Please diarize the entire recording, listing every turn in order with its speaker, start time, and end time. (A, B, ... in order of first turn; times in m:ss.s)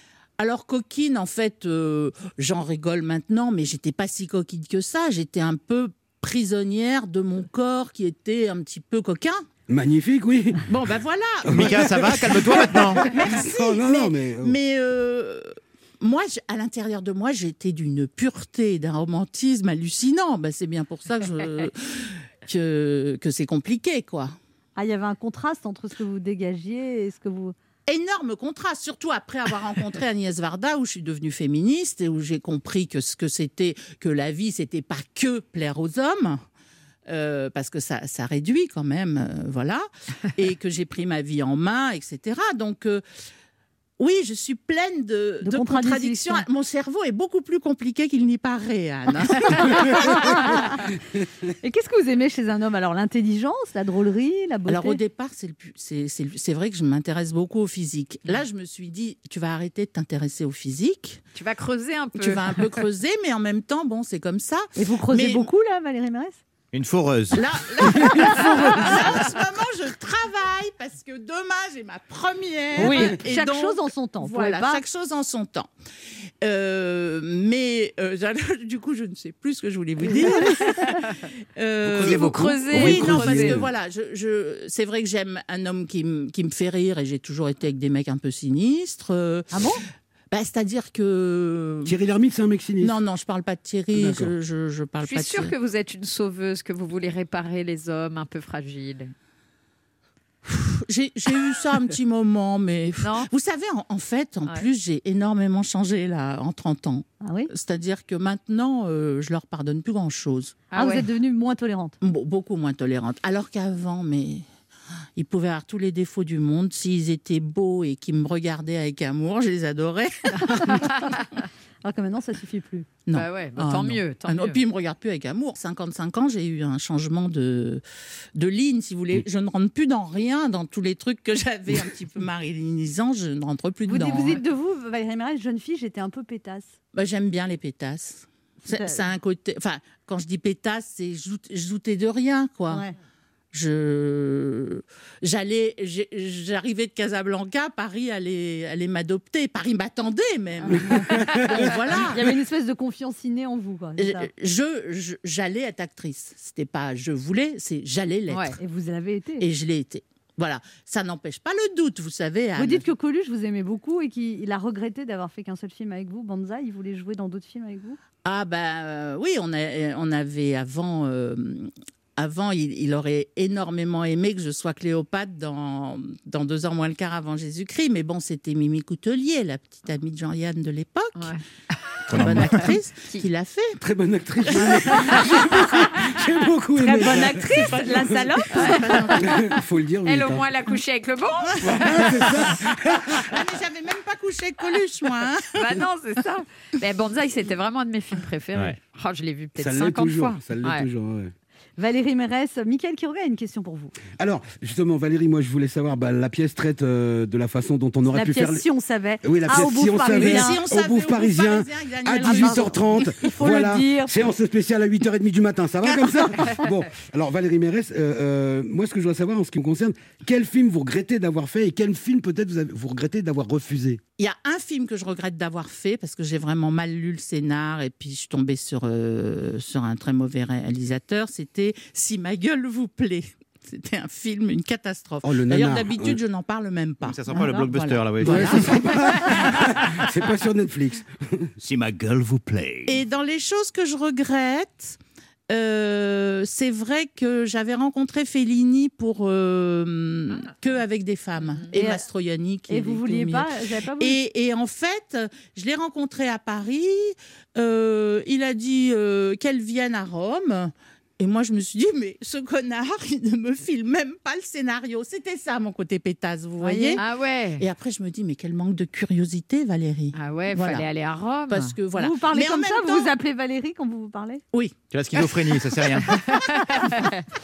0:00.4-0:09.4 A
0:09.7-0:10.7 B
0:10.7-0:24.4 A
0:11.5-0:14.6 B
0:11.5-0:13.1 C
0:24.8-0:27.6 D
0:27.9-0:36.4 A
0:37.1-0:43.0 A
0:44.0-0:50.6 A
0:45.4-0:46.4 D
0:50.0-0:50.8 D
0:51.6-0:55.0 D
0:54.7-1:01.2 A
1:01.4-1:02.8 E
1:02.2-1:05.5 A
1:04.8-1:06.4 D
1:06.7-1:07.5 C
1:07.3-1:15.7 A
1:12.8-1:14.8 D
1:16.4-1:29.6 A
1:20.1-1:20.8 D
1:21.9-1:23.1 C
1:22.0-1:23.6 E
1:22.7-1:23.7 B
1:29.5-1:29.8 D
1:30.3-1:32.0 A
1:31.8-1:33.0 B
1:32.8-1:35.5 A
1:33.9-1:34.3 B
1:35.0-1:39.1 E
1:40.4-1:50.7 A
1:43.0-1:43.3 E
1:47.2-1:47.5 D
1:50.7-1:51.1 E
1:50.8-1:52.0 D
1:52.0-1:54.4 A
1:55.2-2:00.9 A
2:00.4-2:01.4 E
2:00.5-2:01.1 D
2:01.8-2:02.9 D
2:03.1-2:07.8 A
2:03.1-2:04.6 E
2:08.4-2:14.4 A
2:13.9-2:16.8 D
2:16.9-2:22.8 A
2:18.7-2:19.0 D
2:23.5-2:32.3 A
2:30.6-2:34.3 D
2:30.9-2:31.7 B
2:34.0-2:38.6 A
2:38.3-2:38.6 E
2:38.6-2:39.5 D
2:39.4-2:42.9 A
2:42.6-2:48.0 D
2:48.2-3:01.3 A
3:01.2-3:01.4 E
3:02.1-3:02.7 C
3:02.1-3:03.8 A
3:03.8-3:08.4 B
3:04.5-3:05.3 A
3:04.9-3:05.4 E
3:06.8-3:09.1 D
3:07.6-3:09.2 A
3:08.5-3:12.5 E
3:09.2-3:10.5 B
3:11.5-3:12.0 A
3:11.6-3:13.4 B
3:13.2-3:15.6 A
3:15.5-3:20.9 E
3:19.6-3:21.3 B
3:21.8-3:24.0 D
3:24.2-3:28.7 B
3:28.1-3:30.6 D
3:29.2-3:44.0 B
3:30.1-3:33.0 A
3:32.2-3:34.1 D
3:44.2-3:58.7 A
3:55.2-3:56.2 B
3:57.0-3:58.8 C
3:57.3-3:57.7 D
3:58.2-4:01.5 B
4:01.6-4:03.0 C
4:02.9-4:05.0 A
4:05.5-4:27.0 A
4:11.7-4:12.0 D
4:12.7-4:14.2 D
4:26.6-4:27.0 D
4:27.0-4:27.6 E
4:27.6-4:30.9 A
4:30.1-4:31.8 E
4:31.5-4:33.1 A
4:32.0-4:34.4 D
4:34.5-4:36.8 A
4:34.9-4:36.2 C
4:36.4-4:37.2 E